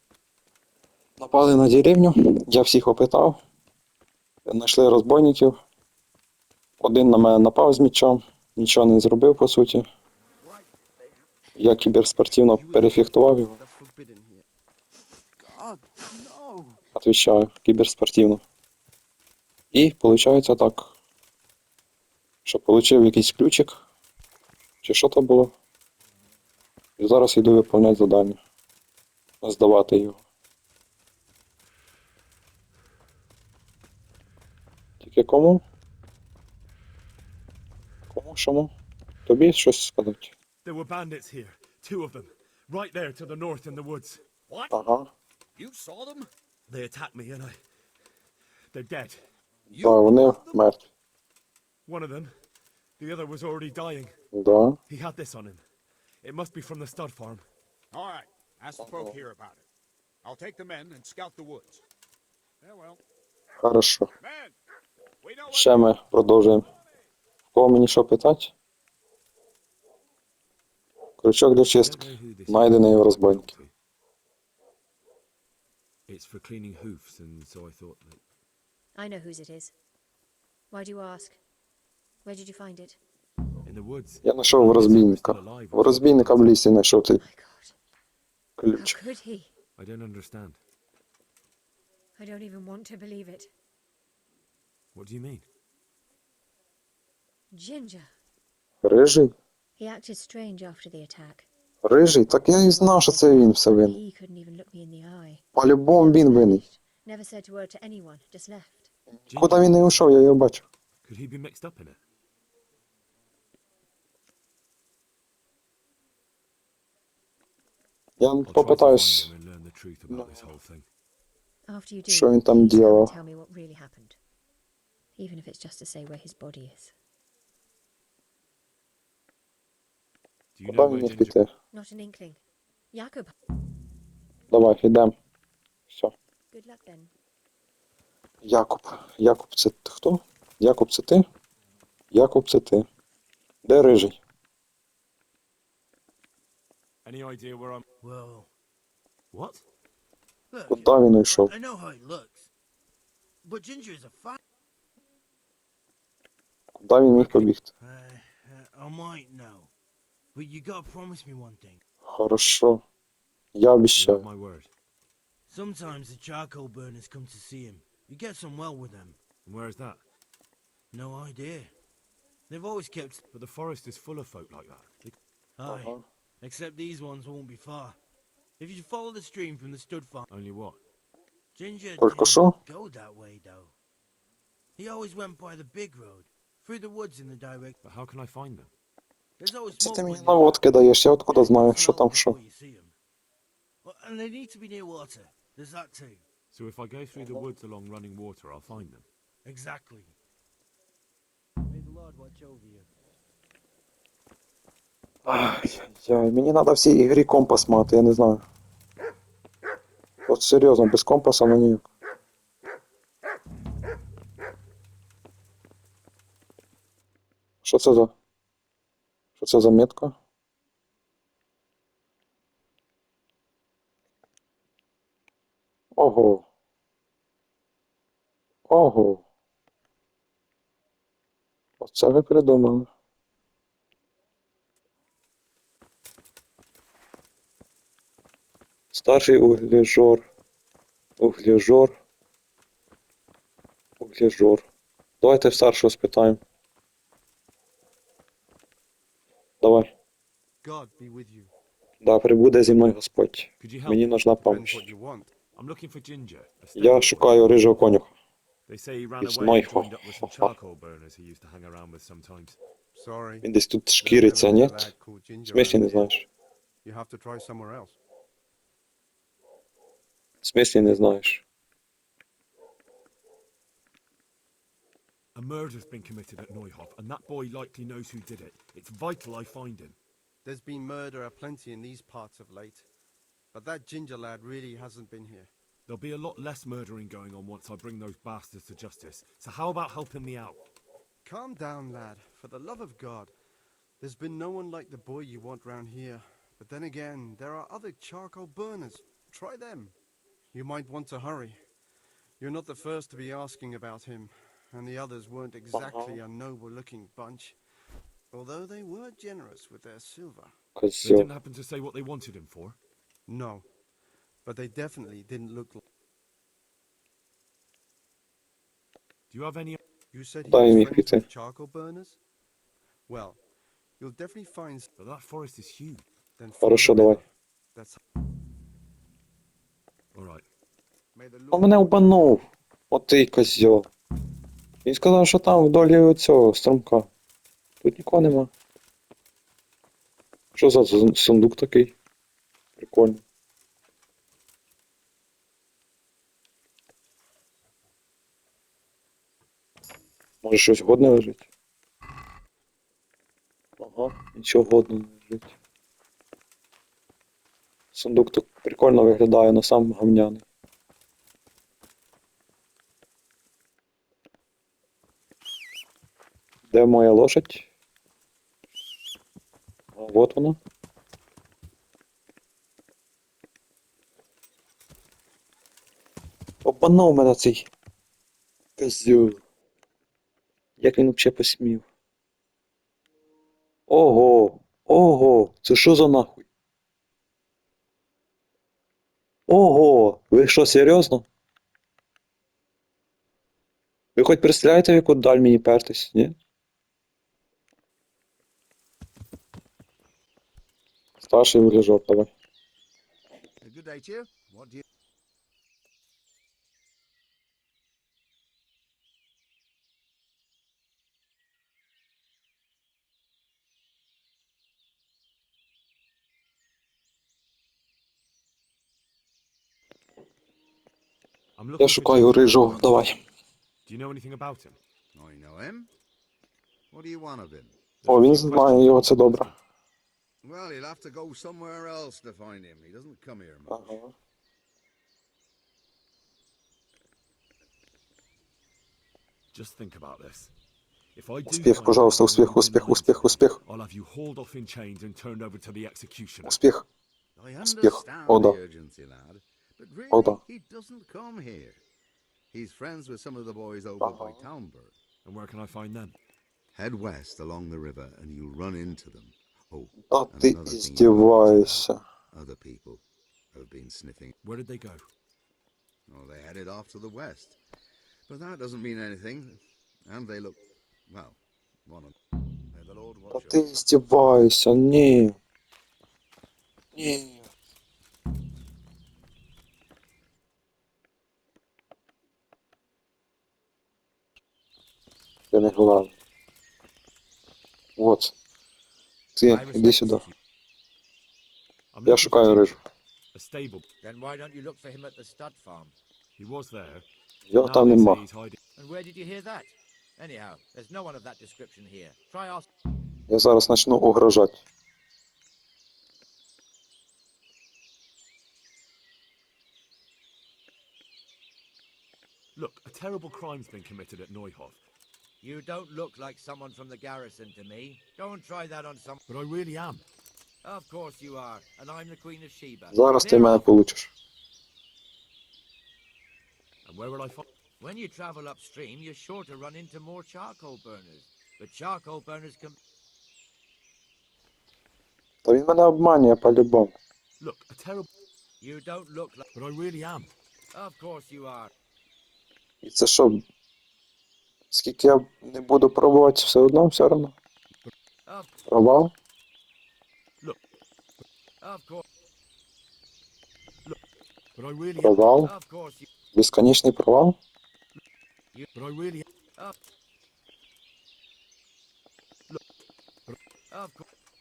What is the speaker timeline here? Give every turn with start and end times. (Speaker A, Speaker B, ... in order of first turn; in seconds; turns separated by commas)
Speaker A: 1.2-3.4, Speaker A: 4.5-5.6, Speaker A: 6.8-9.9, Speaker A: 11.6-13.6, Speaker B: 12.6-14.4, Speaker C: 15.4-16.8, Speaker A: 16.9-18.4, Speaker A: 19.7-20.9, Speaker A: 22.5-23.8, Speaker A: 24.8-25.5, Speaker A: 27.0-28.4, Speaker A: 29.4-30.2, Speaker A: 35.0-35.6, Speaker A: 38.1-38.7, Speaker A: 39.3-40.3, Speaker D: 40.6-44.2, Speaker E: 44.5-44.8, Speaker A: 44.7-45.1, Speaker E: 45.6-46.3, Speaker D: 46.7-47.6, Speaker D: 48.7-49.2, Speaker E: 49.7-50.6, Speaker A: 49.7-50.8, Speaker D: 51.9-52.3, Speaker D: 53.0-54.1, Speaker A: 54.3-54.8, Speaker D: 54.9-55.6, Speaker D: 56.2-57.4, Speaker E: 57.9-59.6, Speaker A: 58.9-59.1, Speaker E: 60.2-61.8, Speaker E: 62.6-63.0, Speaker A: 63.6-64.1, Speaker E: 64.2-64.5, Speaker E: 65.2-65.9, Speaker A: 65.5-66.7, Speaker A: 67.5-68.5, Speaker A: 71.2-73.5, Speaker D: 71.7-73.7, Speaker D: 76.1-78.2, Speaker F: 79.0-79.7, Speaker F: 80.7-81.4, Speaker F: 82.2-83.0, Speaker D: 83.7-86.6, Speaker A: 84.2-87.2, Speaker F: 87.2-87.7, Speaker A: 88.6-89.0, Speaker F: 88.7-89.5, Speaker D: 89.8-90.6, Speaker F: 92.2-93.5, Speaker D: 95.0-95.5, Speaker F: 97.5-98.1, Speaker A: 98.8-99.3, Speaker F: 99.8-101.5, Speaker A: 101.8-104.0, Speaker F: 102.5-108.9, Speaker A: 105.5-106.6, Speaker A: 109.2-110.7, Speaker D: 109.3-110.0, Speaker D: 111.0-112.0, Speaker A: 118.2-119.3, Speaker D: 118.5-120.9, Speaker A: 120.1-120.5, Speaker F: 121.7-124.2, Speaker A: 122.1-123.1, Speaker F: 125.2-126.9, Speaker D: 130.6-131.4, Speaker A: 130.7-131.5, Speaker F: 131.7-132.4, Speaker F: 132.9-133.3, Speaker A: 134.5-135.2, Speaker F: 136.5-137.1, Speaker A: 138.4-141.3, Speaker A: 142.1-142.9, Speaker A: 143.7-144.2, Speaker D: 147.1-147.8, Speaker C: 148.0-148.5, Speaker D: 149.3-149.7, Speaker C: 150.5-152.5, Speaker A: 150.7-151.5, Speaker C: 153.4-154.4, Speaker A: 156.8-157.7, Speaker C: 157.2-159.7, Speaker C: 160.3-161.8, Speaker A: 162.1-162.8, Speaker A: 163.5-164.2, Speaker D: 163.9-164.7, Speaker C: 165.5-169.2, Speaker D: 169.4-170.0, Speaker C: 170.9-171.7, Speaker C: 172.5-173.2, Speaker D: 173.3-175.2, Speaker C: 175.6-178.0, Speaker A: 175.7-176.0, Speaker C: 178.6-180.3, Speaker D: 180.3-180.8, Speaker C: 181.6-183.7, Speaker A: 182.0-182.6, Speaker C: 184.8-187.7, Speaker D: 187.8-188.7, Speaker C: 189.4-190.7, Speaker A: 189.8-192.4, Speaker C: 191.3-192.9, Speaker C: 193.8-196.2, Speaker D: 196.5-199.1, Speaker C: 199.4-200.2, Speaker C: 201.7-202.9, Speaker A: 205.3-208.4, Speaker A: 210.3-211.8, Speaker A: 217.6-218.1, Speaker A: 219.4-220.2, Speaker A: 226.0-226.4, Speaker A: 228.7-229.2, Speaker A: 231.8-232.9, Speaker A: 238.9-240.2, Speaker A: 241.2-242.0, Speaker A: 244.0-244.6, Speaker A: 245.2-246.4, Speaker A: 249.6-249.9, Speaker B: 250.6-251.5, Speaker A: 252.0-254.9, Speaker D: 253.6-254.1, Speaker B: 254.4-255.3, Speaker D: 255.5-257.9, Speaker A: 256.8-258.1, Speaker D: 258.7-262.6, Speaker A: 259.2-260.5, Speaker B: 262.9-263.5, Speaker A: 263.4-264.9, Speaker B: 264.0-266.1, Speaker A: 265.5-266.3, Speaker B: 266.8-268.0, Speaker A: 270.4-271.4, Speaker D: 275.4-280.0, Speaker B: 280.4-282.9, Speaker B: 283.5-285.5, Speaker D: 285.9-290.6, Speaker B: 291.2-293.3, Speaker B: 294.0-300.0, Speaker B: 300.5-301.6, Speaker B: 302.4-307.6, Speaker A: 305.7-306.2, Speaker B: 308.3-310.5, Speaker A: 310.8-311.3, Speaker D: 311.0-312.8, Speaker B: 313.3-313.7, Speaker B: 314.4-315.8, Speaker D: 319.3-319.8, Speaker B: 320.1-322.2, Speaker A: 320.5-321.2, Speaker B: 323.1-323.4, Speaker B: 324.0-324.9, Speaker D: 325.0-326.0, Speaker B: 326.4-328.0, Speaker A: 326.6-327.2, Speaker D: 330.1-330.4, Speaker B: 331.1-332.1, Speaker A: 331.5-333.9, Speaker A: 334.9-337.1, Speaker A: 337.8-338.5, Speaker A: 340.5-342.0, Speaker A: 342.8-343.2, Speaker A: 350.4-351.4, Speaker A: 353.8-355.5, Speaker A: 357.9-360.4, Speaker A: 366.7-367.6, Speaker A: 370.0-370.6, Speaker A: 376.6-377.7, Speaker A: 378.8-379.4, Speaker A: 380.8-381.9, Speaker A: 383.9-386.4, Speaker A: 389.5-391.3, Speaker A: 394.2-396.4, Speaker A: 401.2-402.3, Speaker E: 403.6-404.8, Speaker D: 421.6-422.9, Speaker A: 421.8-423.2, Speaker D: 423.9-424.8, Speaker E: 425.1-425.9, Speaker E: 426.9-427.8, Speaker D: 428.0-429.6, Speaker A: 428.1-429.5, Speaker E: 430.4-434.0, Speaker A: 433.7-434.1, Speaker D: 439.5-440.5, Speaker D: 441.2-446.6, Speaker A: 441.5-443.6, Speaker A: 446.4-446.9, Speaker E: 447.4-451.8, Speaker A: 447.6-448.6, Speaker A: 450.1-450.4, Speaker E: 452.5-454.9, Speaker A: 454.0-454.4, Speaker D: 455.2-456.1, Speaker E: 456.7-464.4, Speaker A: 460.1-462.0, Speaker D: 464.4-465.0, Speaker E: 466.1-467.6, Speaker E: 468.3-472.1, Speaker E: 472.7-473.8, Speaker A: 473.3-475.4, Speaker A: 476.9-477.4, Speaker A: 485.5-486.1, Speaker A: 488.0-488.3, Speaker A: 489.4-490.2, Speaker D: 489.5-490.3, Speaker D: 491.9-492.8, Speaker A: 492.1-492.8, Speaker D: 493.3-493.9, Speaker G: 494.0-495.9, Speaker D: 496.4-497.1, Speaker A: 497.5-498.2, Speaker D: 497.6-498.6, Speaker G: 498.8-502.7, Speaker A: 503.3-504.6, Speaker D: 512.6-514.8, Speaker G: 515.4-519.2, Speaker D: 519.3-520.0, Speaker G: 520.6-523.6, Speaker A: 522.9-524.1, Speaker D: 526.9-527.4, Speaker G: 527.8-532.8, Speaker A: 535.4-536.9, Speaker D: 537.4-538.1, Speaker G: 538.6-539.5, Speaker D: 539.5-540.3, Speaker G: 540.7-541.7, Speaker A: 542.8-543.4, Speaker A: 544.7-547.3, Speaker G: 548.3-548.6, Speaker A: 548.7-549.1, Speaker G: 551.6-552.1, Speaker D: 554.6-555.2, Speaker A: 555.0-555.5, Speaker G: 555.4-556.1, Speaker A: 556.3-557.4, Speaker D: 558.7-559.3, Speaker G: 563.7-564.0